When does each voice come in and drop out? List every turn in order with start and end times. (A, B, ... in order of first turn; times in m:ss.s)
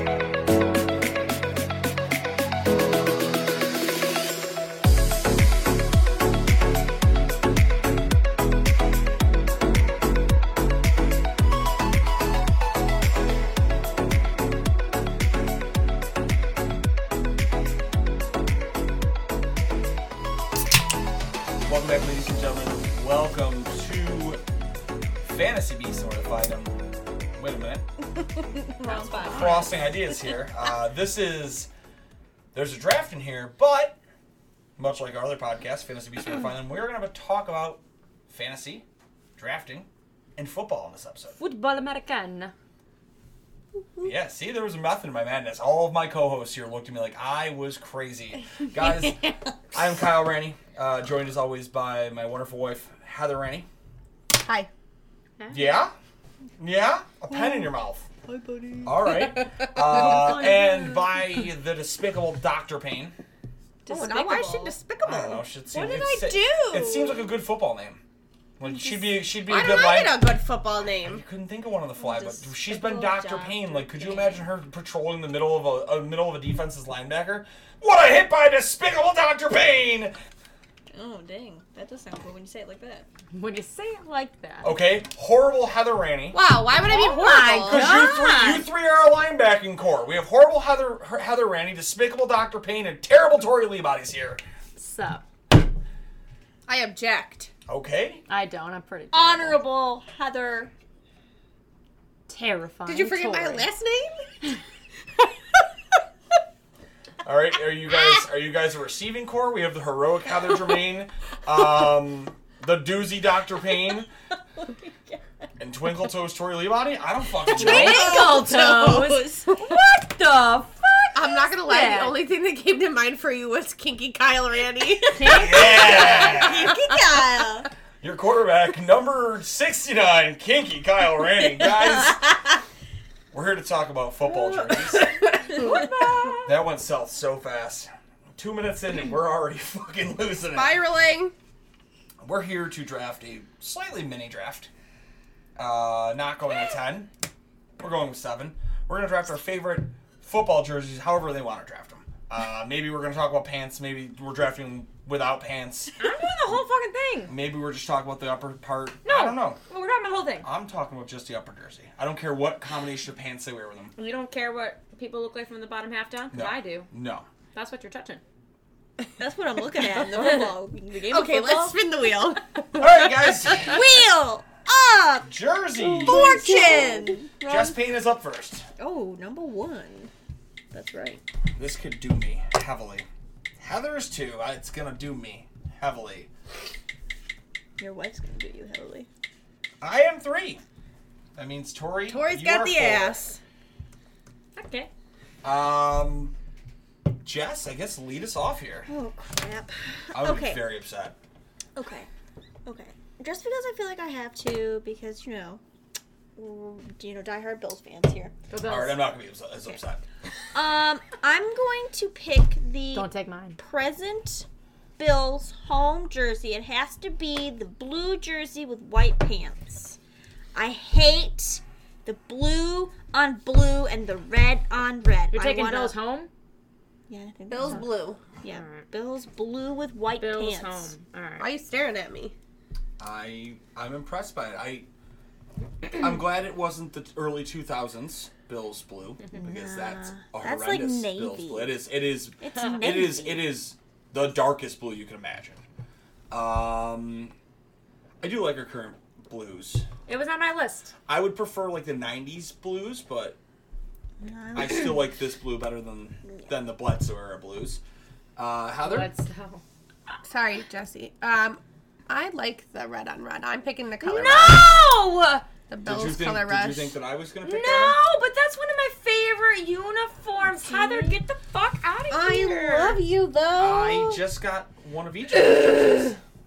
0:21.6-0:24.4 A
0:25.2-0:26.8 A
0:27.3-0:27.8 A
0:28.8-0:30.4 B
0:29.0-0:31.7 A
0:32.5-0:34.0 A
0:34.8-0:38.8 A
0:39.4-0:41.4 A
0:41.4-0:42.5 C
0:44.0-0:53.7 A
0:54.3-0:54.7 D
0:55.4-0:55.7 C
0:55.5-0:55.9 A
0:56.6-0:58.1 A
0:57.3-0:57.7 B
0:58.2-0:59.3 B
0:58.8-1:03.1 A
0:59.9-1:01.2 C
1:03.8-1:04.8 B
1:03.9-1:05.4 D
1:05.0-1:08.0 A
1:05.7-1:07.4 B
1:08.6-1:10.3 A
1:09.4-1:11.2 D
1:11.0-1:20.2 A
1:12.0-1:14.4 B
1:20.9-1:23.1 B
1:23.3-1:24.7 C
1:24.6-1:26.4 A
1:26.3-1:27.9 D
1:26.7-1:28.6 B
1:27.7-1:34.4 A
1:27.8-1:28.6 C
1:34.8-1:35.2 C
1:36.7-1:37.5 D
1:37.7-1:38.2 A
1:38.3-1:39.6 C
1:39.1-1:40.7 B
1:42.3-1:43.7 C
1:42.8-1:44.4 D
1:47.2-1:54.1 A
1:54.5-1:55.5 B
1:55.6-1:58.1 A
1:57.4-1:59.8 B
1:57.5-2:00.8 C
1:57.6-1:59.7 D
2:00.8-2:01.8 B
2:01.1-2:07.7 D
2:01.3-2:02.2 C
2:05.1-2:06.2 C
2:05.3-2:06.7 A
2:05.8-2:07.7 B
2:08.0-2:12.6 A
2:13.3-2:15.1 A
2:14.3-2:16.5 B
2:15.5-2:16.4 D
2:16.4-2:20.8 A
2:20.5-2:21.3 D
2:22.2-2:24.7 A
2:25.6-2:27.1 A
2:27.8-2:36.1 A
2:36.0-2:37.3 C
2:37.3-2:39.6 A
2:39.0-2:40.5 C
2:40.4-2:43.9 A
2:44.0-2:46.9 C
2:46.3-2:47.3 A
2:47.5-2:48.2 C
2:49.2-2:51.8 B
2:49.7-2:50.5 D
2:51.1-2:53.8 D
2:52.7-2:53.8 A
2:53.5-2:55.3 B
2:55.2-2:56.8 A
2:55.8-2:57.3 D
2:56.0-2:57.8 B
2:57.4-2:58.6 A
2:58.8-3:00.1 B
3:00.7-3:01.2 B
3:01.5-3:03.1 A
3:03.6-3:06.3 A
3:07.8-3:09.1 B
3:09.8-3:10.6 A
3:11.3-3:13.2 A
3:12.1-3:13.4 D
3:14.5-3:14.9 C
3:15.4-3:16.3 A
3:17.2-3:18.9 A
3:18.9-3:20.7 B
3:20.1-3:21.2 A
3:21.8-3:22.1 B
3:22.6-3:25.6 B
3:26.4-3:28.3 B
3:28.5-3:29.1 C
3:28.6-3:30.0 A
3:30.5-3:34.4 B
3:32.9-3:33.6 C
3:35.0-3:40.0 B
3:40.5-3:46.0 B
3:45.3-3:46.3 C
3:47.1-3:50.9 B
3:47.5-3:48.2 D
3:48.5-3:48.8 C
3:50.2-3:51.5 C
3:51.4-3:52.3 D
3:53.0-3:54.9 A
3:55.8-4:05.6 A
3:59.4-4:01.8 B
4:02.4-4:03.5 B
4:06.3-4:07.3 A
4:08.2-4:09.8 A
4:10.1-4:10.9 C
4:11.1-4:13.4 A
4:14.2-4:15.1 B
4:14.5-4:17.8 A
4:18.4-4:19.1 A
4:18.8-4:19.6 C
4:20.2-4:24.8 D
4:24.0-4:25.4 C
4:25.7-4:27.0 D
4:25.8-4:28.0 A
4:27.4-4:33.0 C
4:30.5-4:31.2 B
4:32.1-4:33.0 D
4:32.5-4:34.2 B
4:33.6-4:36.2 A